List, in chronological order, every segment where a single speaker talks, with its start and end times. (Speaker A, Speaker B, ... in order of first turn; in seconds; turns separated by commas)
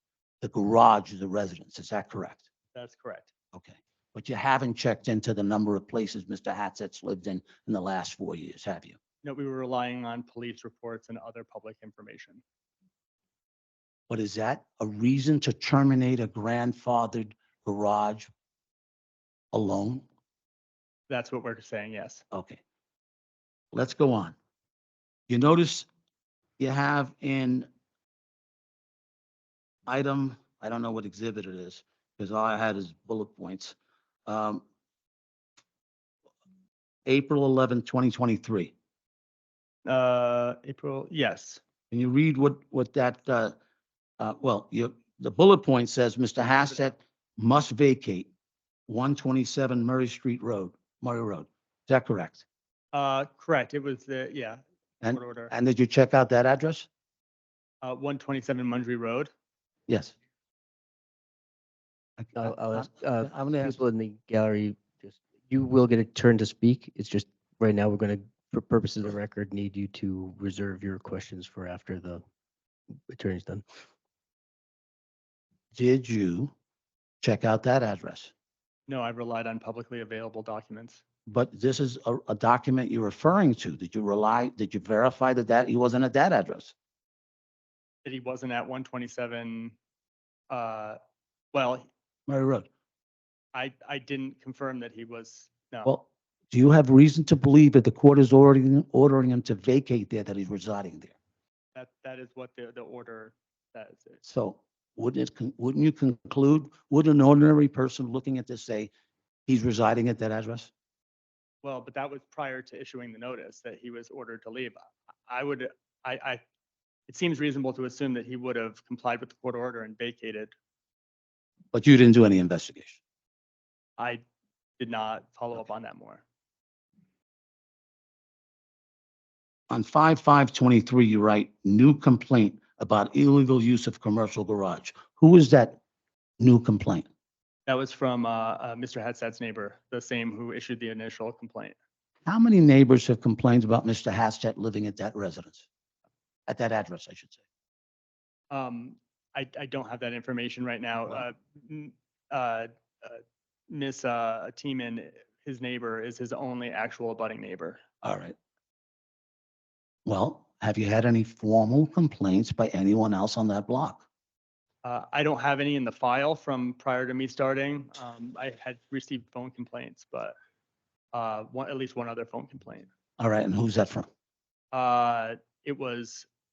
Speaker A: 0.4-2.4, Speaker B: 2.7-3.3, Speaker A: 3.5-9.0, Speaker B: 9.2-12.4, Speaker A: 14.1-18.3, Speaker A: 19.5-20.1, Speaker B: 21.1-22.2, Speaker A: 22.3-22.6, Speaker A: 23.7-24.4, Speaker A: 25.3-25.9, Speaker A: 26.6-27.7, Speaker A: 29.9-33.8, Speaker A: 34.3-34.6, Speaker A: 37.1-38.7, Speaker B: 39.9-41.6, Speaker A: 41.9-43.6, Speaker A: 44.2-48.3, Speaker A: 48.9-52.5, Speaker B: 52.9-55.5, Speaker A: 55.0-56.9, Speaker B: 57.8-59.3, Speaker A: 59.9-60.1, Speaker A: 62.2-63.8, Speaker C: 62.4-72.2, Speaker C: 73.1-73.7, Speaker A: 75.7-76.5, Speaker A: 77.2-78.3, Speaker B: 78.9-81.0, Speaker A: 81.3-86.7, Speaker B: 88.0-89.8, Speaker B: 90.5-91.0, Speaker B: 91.5-91.9, Speaker A: 92.3-92.7, Speaker B: 93.5-95.9, Speaker A: 95.8-101.2, Speaker B: 101.8-104.2, Speaker A: 104.2-108.9, Speaker A: 109.5-110.7, Speaker B: 111.6-116.4, Speaker B: 117.1-120.5, Speaker A: 121.7-123.0, Speaker B: 124.8-126.2, Speaker A: 129.7-135.8, Speaker A: 136.4-137.1, Speaker B: 137.7-141.8, Speaker A: 142.3-145.7, Speaker A: 146.5-147.4, Speaker B: 148.5-157.8, Speaker A: 158.0-158.4, Speaker A: 160.1-164.0, Speaker B: 164.8-170.3, Speaker B: 171.1-172.9, Speaker A: 173.2-174.1, Speaker B: 174.7-176.3